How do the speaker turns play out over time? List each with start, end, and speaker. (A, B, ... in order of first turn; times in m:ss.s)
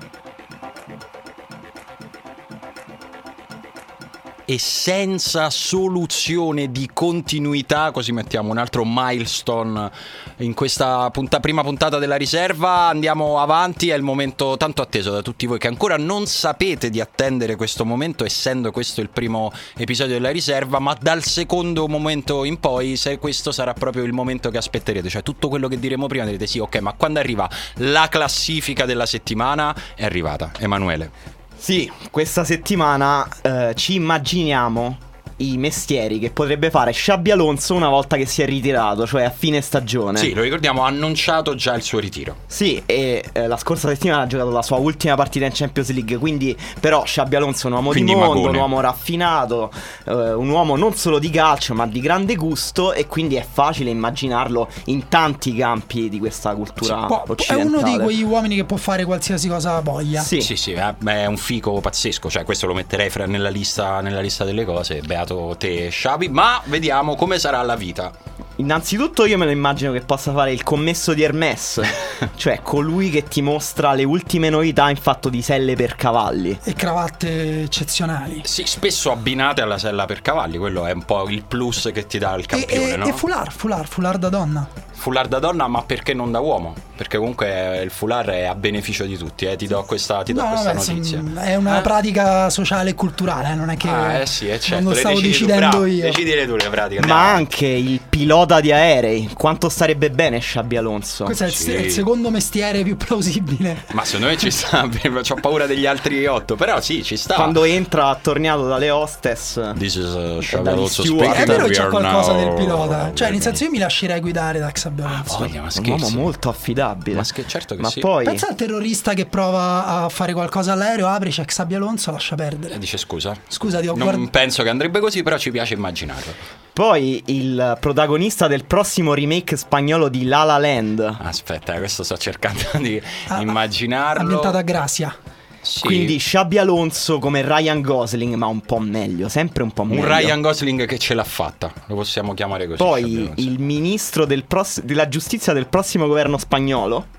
0:04.5-0:31.1 A
0:31.6-0:40.3 B
0:40.2-0:42.4 A
0:42.5-0:58.1 B
0:47.9-0:48.7 A
0:57.1-1:00.3 C
1:00.1-1:00.5 B
1:00.4-1:08.1 A
1:08.6-1:16.6 B
1:16.6-1:18.4 C
1:18.4-1:23.2 A
1:22.5-1:24.7 C
1:24.9-1:31.9 A
1:30.3-1:36.2 C
1:33.8-1:37.4 A
1:37.0-1:41.4 B
1:41.2-1:43.9 C
1:41.5-1:42.0 A
1:43.9-1:47.6 A
1:47.3-1:49.8 B
1:49.7-1:53.6 A
1:50.5-1:51.7 B
1:51.3-1:55.5 C
1:55.1-1:56.3 A
1:55.7-1:58.4 B
1:57.1-1:58.1 A
1:58.2-2:02.8 C
2:02.7-2:06.4 A
2:03.5-2:04.2 C
2:06.8-2:11.2 B
2:11.2-2:14.6 A
2:13.3-2:13.5 C
2:14.1-2:15.2 C
2:15.6-2:16.1 A
2:15.8-2:20.3 B
2:19.9-2:23.5 A
2:22.8-2:27.1 B